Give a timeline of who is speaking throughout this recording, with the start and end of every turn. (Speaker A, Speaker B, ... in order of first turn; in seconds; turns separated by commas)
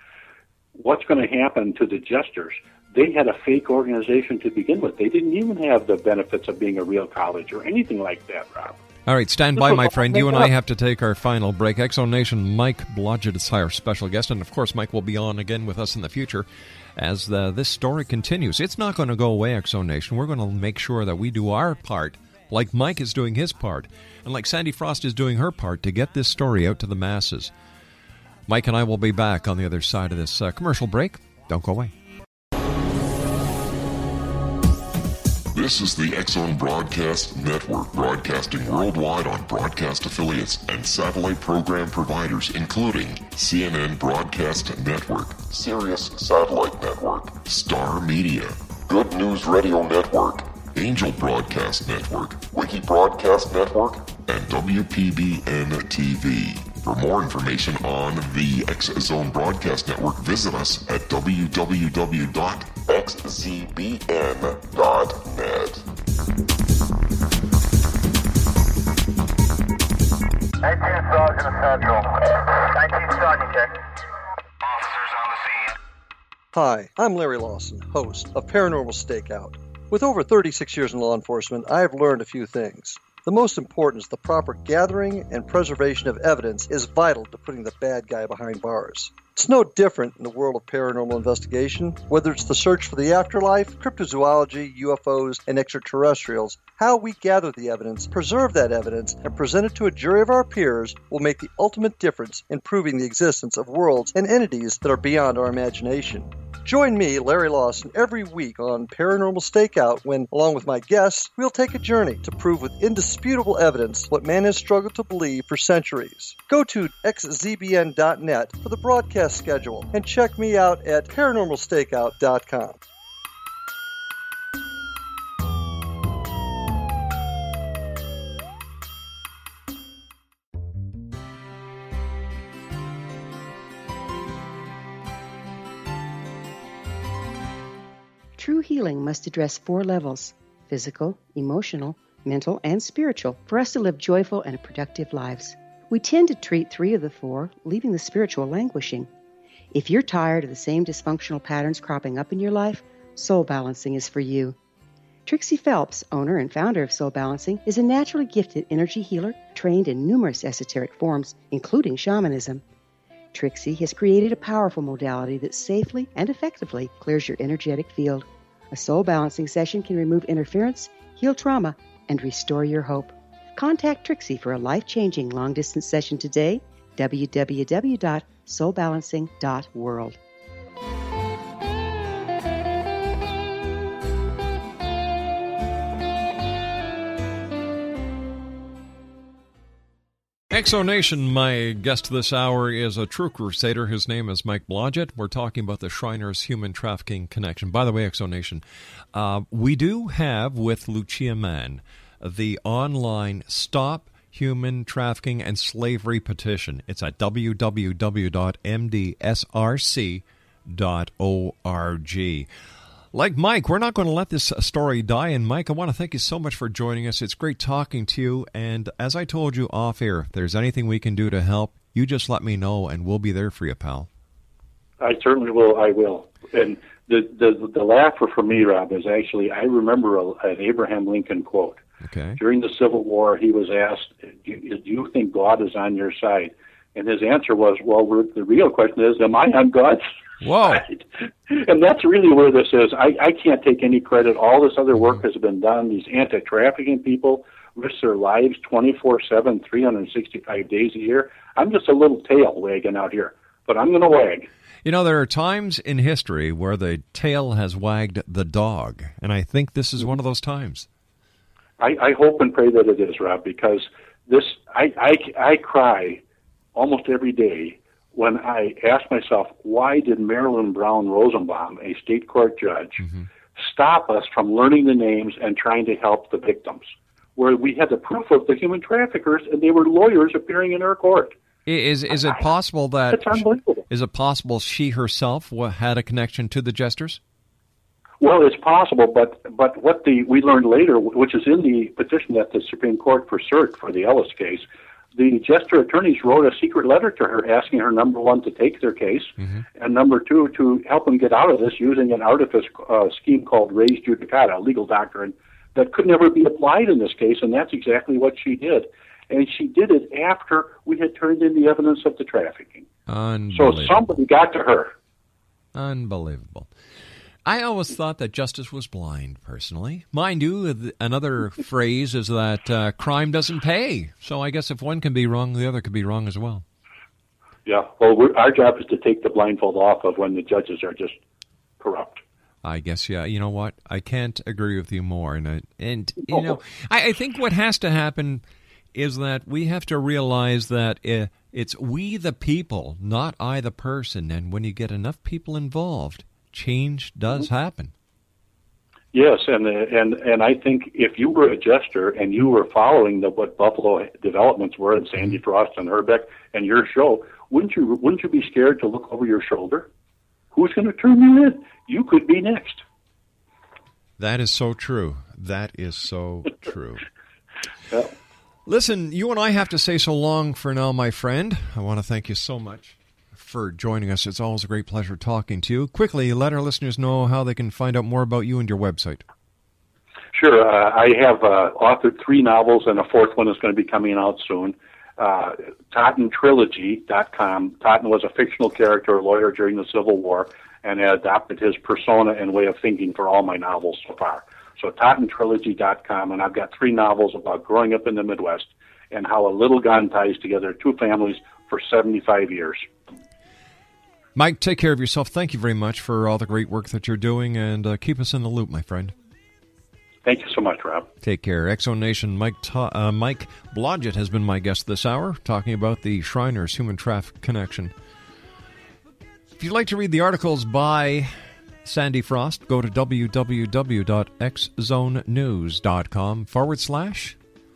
Speaker A: 0.8-8.8, Speaker B: 9.1-27.5, Speaker A: 9.6-10.5, Speaker B: 28.5-31.9, Speaker C: 35.5-65.8, Speaker D: 70.6-73.8, Speaker E: 76.5-122.8, Speaker F: 138.4-149.1, Speaker F: 149.7-154.5, Speaker F: 155.2-162.6, Speaker F: 163.3-180.2, Speaker B: 190.5-212.5, Speaker B: 213.1-224.1, Speaker A: 225.0-231.8, Speaker B: 232.0-232.4, Speaker A: 232.4-240.0, Speaker B: 240.4-240.8, Speaker A: 240.6-254.5, Speaker B: 254.8-260.9, Speaker A: 261.8-266.2, Speaker A: 266.7-273.0, Speaker A: 273.6-276.9, Speaker A: 277.4-281.3, Speaker B: 281.6-287.2, Speaker A: 283.1-283.8, Speaker A: 288.2-294.6, Speaker A: 295.1-312.9, Speaker B: 313.1-314.0, Speaker A: 313.5-314.9, Speaker B: 315.7-316.7, Speaker B: 317.4-326.6, Speaker A: 327.6-331.2, Speaker A: 331.8-332.2, Speaker B: 332.6-347.9, Speaker A: 349.1-359.9, Speaker A: 360.5-362.8, Speaker B: 364.2-367.0, Speaker B: 368.6-379.2, Speaker A: 380.3-402.9, Speaker B: 404.3-409.1, Speaker A: 410.2-411.1, Speaker B: 411.2-417.9, Speaker B: 419.6-427.4